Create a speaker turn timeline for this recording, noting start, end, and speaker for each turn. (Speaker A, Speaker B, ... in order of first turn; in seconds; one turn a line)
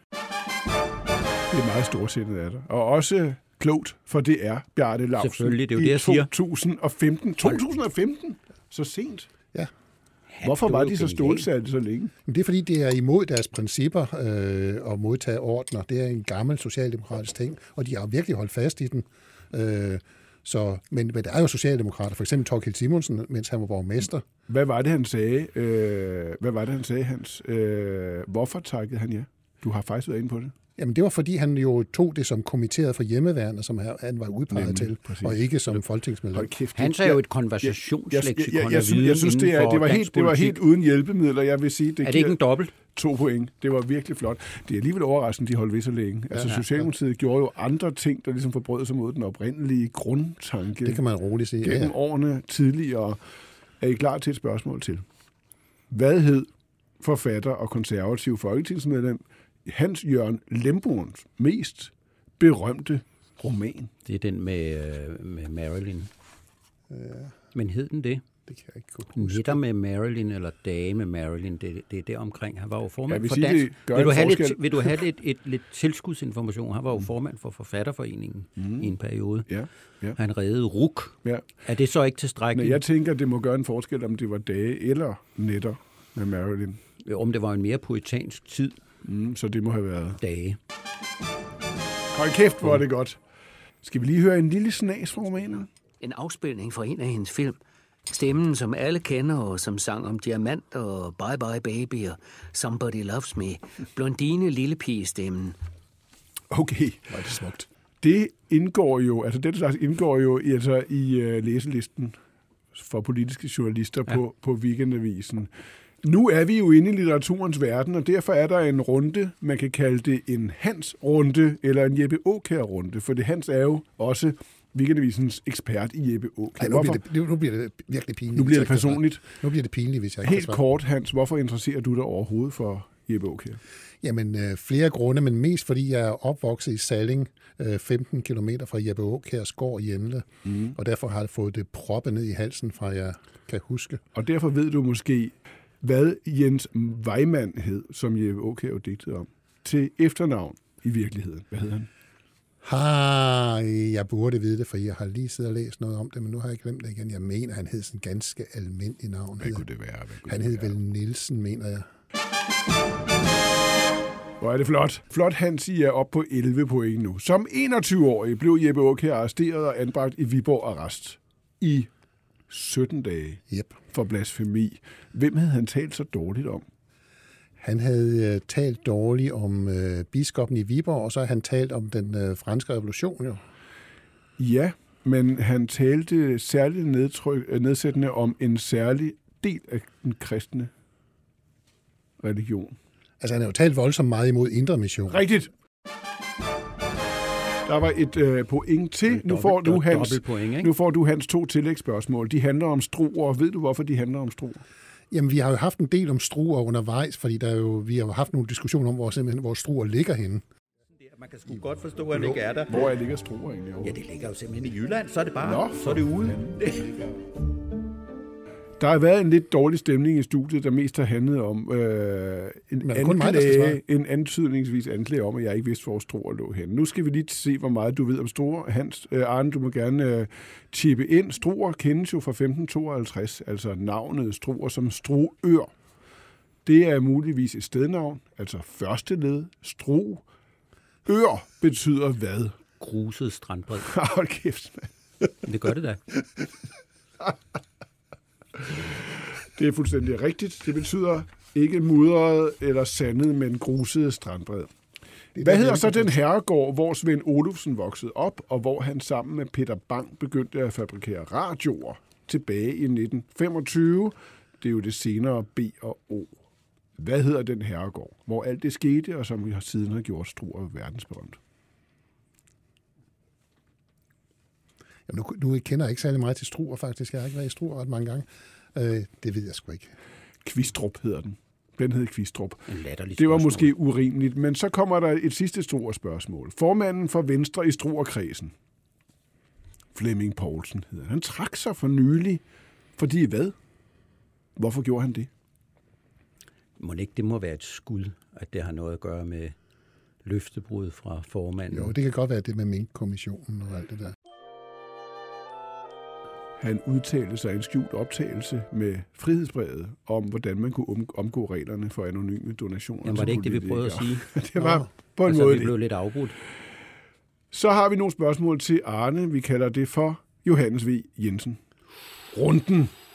Speaker A: 1.5-9.3
Speaker B: 5.2-6.3
Speaker B: 10.3-11.5
Speaker A: 10.4-12.1
Speaker C: 12.2-24.2
Speaker A: 24.5-30.5
Speaker C: 30.8-36.5
Speaker A: 34.5-35.8
Speaker A: 36.3-51.0
Speaker B: 36.7-40.6
Speaker B: 42.0-42.7
Speaker C: 46.4-46.6
Speaker C: 50.8-51.9
Speaker A: 51.6-53.2
Speaker A: 53.8-55.0
Speaker A: 55.9-56.5
Speaker A: 57.0-63.9
Speaker B: 64.0-66.1
Speaker C: 66.9-67.4
Speaker B: 67.5-68.2
Speaker C: 68.5-69.6
Speaker B: 69.1-79.5
Speaker A: 73.1-75.0
Speaker A: 78.6-78.9
Speaker A: 79.5-80.2
Speaker B: 80.2-82.8
Speaker A: 82.5-86.8
Speaker B: 87.0-88.8
Speaker A: 89.0-90.2
Speaker B: 90.2-90.6
Speaker A: 92.1-93.2
Speaker A: 93.8-95.7
Speaker D: 96.0-105.6
Speaker A: 106.5-107.4
Speaker C: 107.1-107.6
Speaker A: 108.0-112.2
Speaker A: 112.7-115.5
Speaker A: 116.0-127.0
Speaker C: 126.6-130.6
Speaker A: 128.3-129.2
Speaker A: 130.2-133.6
Speaker C: 134.0-144.0
Speaker A: 140.5-140.7
Speaker A: 144.1-151.9
Speaker C: 152.6-159.6
Speaker A: 159.4-160.7
Speaker C: 160.2-161.9
Speaker A: 164.4-171.9
Speaker A: 172.5-176.6
Speaker C: 173.5-173.8
Speaker C: 177.6-183.4
Speaker A: 184.4-190.7
Speaker A: 192.2-192.8
Speaker C: 193.2-195.2
Speaker A: 195.1-195.5
Speaker A: 197.7-204.6
Speaker B: 199.1-200.7
Speaker C: 205.1-210.4
Speaker B: 211.0-212.9
Speaker A: 212.7-213.9
Speaker B: 213.8-217.0
Speaker A: 215.4-216.5
Speaker A: 218.8-235.7
Speaker C: 222.8-223.8
Speaker A: 236.6-240.2
Speaker A: 241.1-242.6
Speaker B: 242.8-243.9
Speaker A: 243.8-244.9
Speaker B: 245.4-246.0
Speaker A: 248.6-254.7
Speaker C: 255.3-256.2
Speaker A: 255.4-266.3
Speaker A: 267.0-271.4
Speaker C: 275.1-279.9
Speaker A: 280.4-288.5
Speaker B: 282.7-283.7
Speaker A: 289.9-292.4
Speaker A: 293.0-293.5
Speaker A: 294.6-295.3
Speaker B: 296.8-299.5
Speaker B: 300.2-301.9
Speaker C: 301.7-304.1
Speaker A: 306.6-315.8
Speaker B: 313.0-314.3
Speaker B: 315.2-316.4
Speaker A: 317.5-321.6
Speaker A: 322.3-322.9